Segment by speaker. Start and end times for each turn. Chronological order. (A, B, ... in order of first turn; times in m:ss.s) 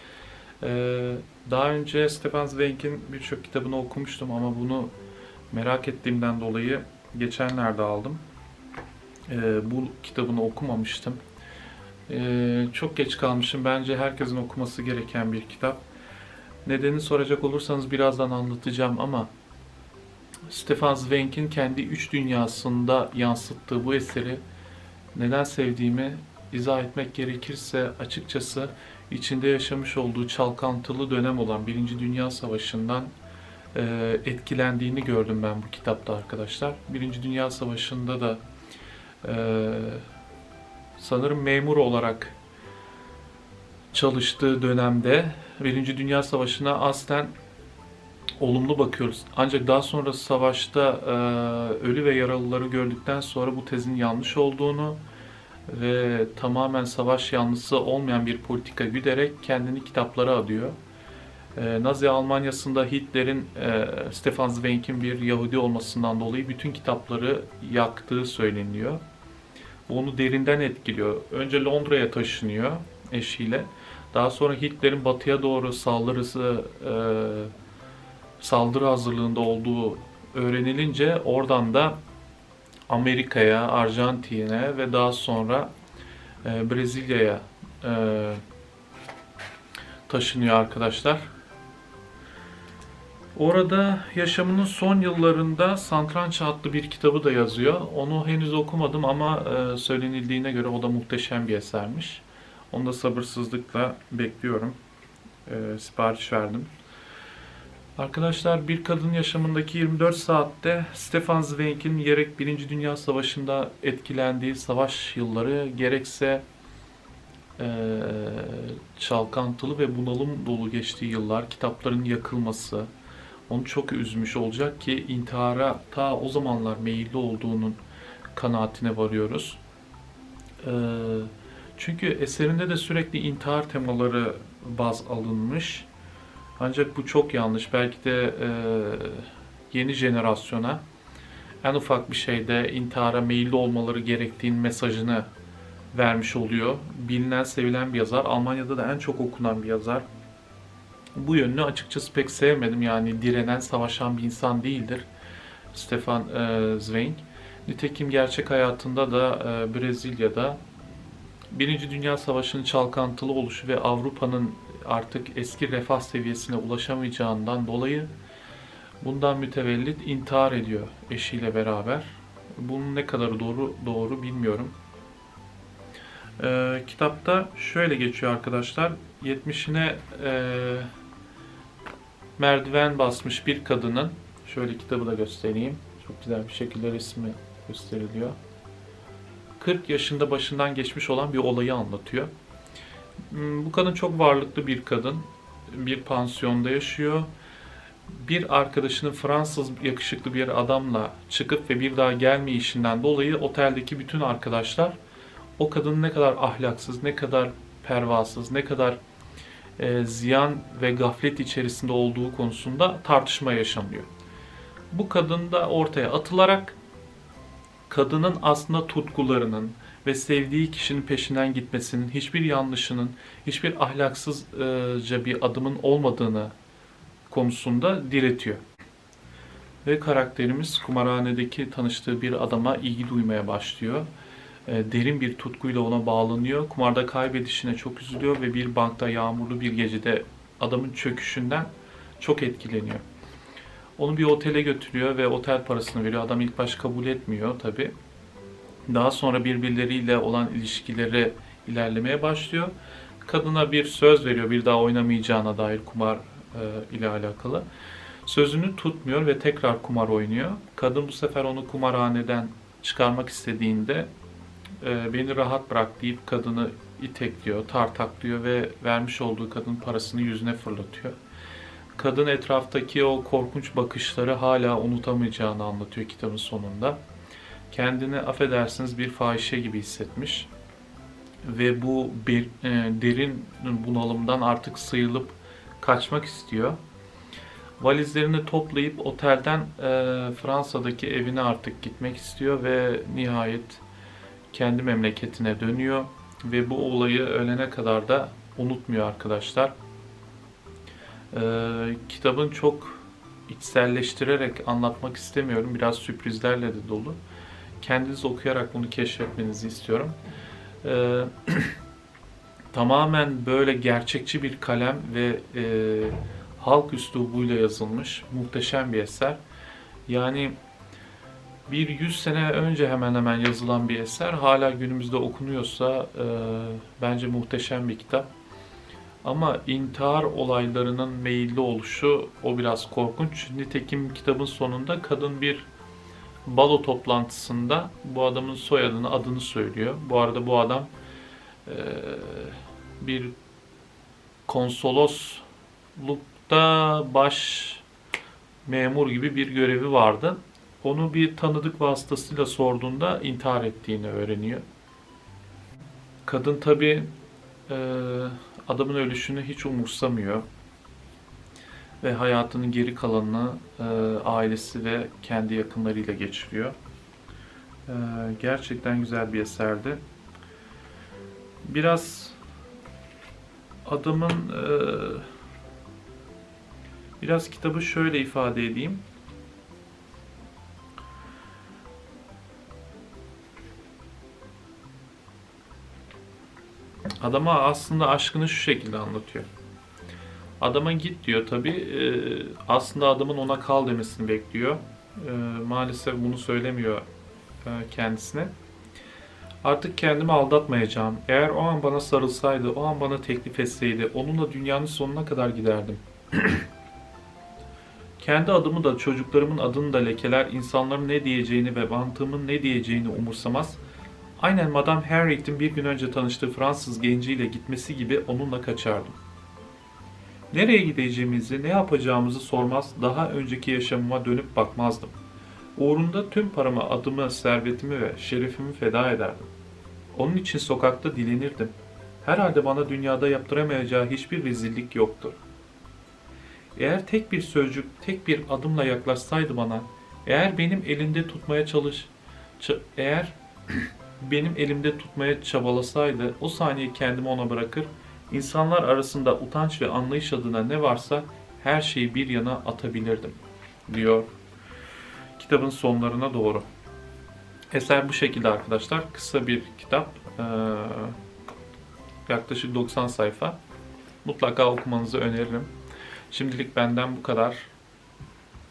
0:00.6-0:04.9 A
0:05.5-0:08.2 A
0:09.3-0:11.2 A
0:12.1-0:15.8 A
0:16.6-0:19.3 A
0:20.5-0:24.4 A
0:25.1-0:33.1 A
0:33.7-0:38.4 A
0:39.2-0:40.0 A
0:41.0-0:42.4 A
0:43.9-0:47.3 A
0:48.4-0:55.0 A
0:55.7-1:00.8 A
1:01.6-1:09.0 A
1:09.9-1:17.5 A
1:18.4-1:22.0 A
1:22.9-1:25.7 A
1:26.4-1:28.4 A
1:30.1-1:31.3 A
1:33.3-1:44.8 A
1:45.4-1:46.7 A
1:48.0-1:56.4 A
1:57.6-2:02.9 A
2:03.5-2:07.8 A
2:08.3-2:09.6 A
2:10.6-2:15.9 A
2:16.6-2:20.8 A
2:21.6-2:25.3 A
2:25.9-2:30.0 A
2:31.1-2:35.1 A
2:35.7-2:40.6 A
2:41.5-2:48.1 A
2:49.0-2:54.7 A
2:56.4-3:00.9 A
3:02.4-3:08.4 A
3:09.6-3:12.3 A
3:13.3-3:17.3 A
3:18.1-3:24.9 A
3:25.6-3:29.0 A
3:29.8-3:34.1 A
3:34.9-3:36.8 A
3:37.9-3:46.5 A
3:47.3-3:48.6 A
3:49.8-3:54.1 A
3:54.6-4:03.0 A
4:04.0-4:07.9 A
4:08.9-4:17.6 A
4:18.2-4:24.1 A
4:24.8-4:31.1 A
4:32.0-4:37.0 A
4:37.7-4:40.5 A
4:41.4-4:46.8 A
4:47.8-4:53.8 A
4:54.5-4:59.7 A
5:01.3-5:07.2 A
5:07.8-5:10.2 A
5:10.8-5:11.8 A
5:12.7-5:19.4 A
5:20.1-5:20.6 A
5:21.7-5:28.3 A
5:29.2-5:35.7 A
5:36.4-5:40.9 A
5:41.6-5:43.3 A
5:44.5-5:47.8 A
5:48.6-5:54.6 A
5:56.2-5:57.1 A
5:57.7-6:00.4 A
6:02.0-6:06.8 A
6:07.9-6:10.0 A
6:11.6-6:12.4 A
6:13.8-6:15.3 A
6:17.2-6:19.0 A
6:27.2-6:29.5 A
6:30.6-6:37.0 A
6:37.6-6:38.5 A
6:39.6-6:46.6 A
6:48.2-6:53.8 A
6:54.4-6:59.2 A
7:00.5-7:05.1 A
7:05.8-7:09.5 A
7:10.1-7:15.4 A
7:16.8-7:34.3 A
7:35.4-7:36.6 A
7:37.7-7:41.2 A
7:42.3-7:43.6 A
7:44.2-7:45.7 A
7:46.3-7:47.7 A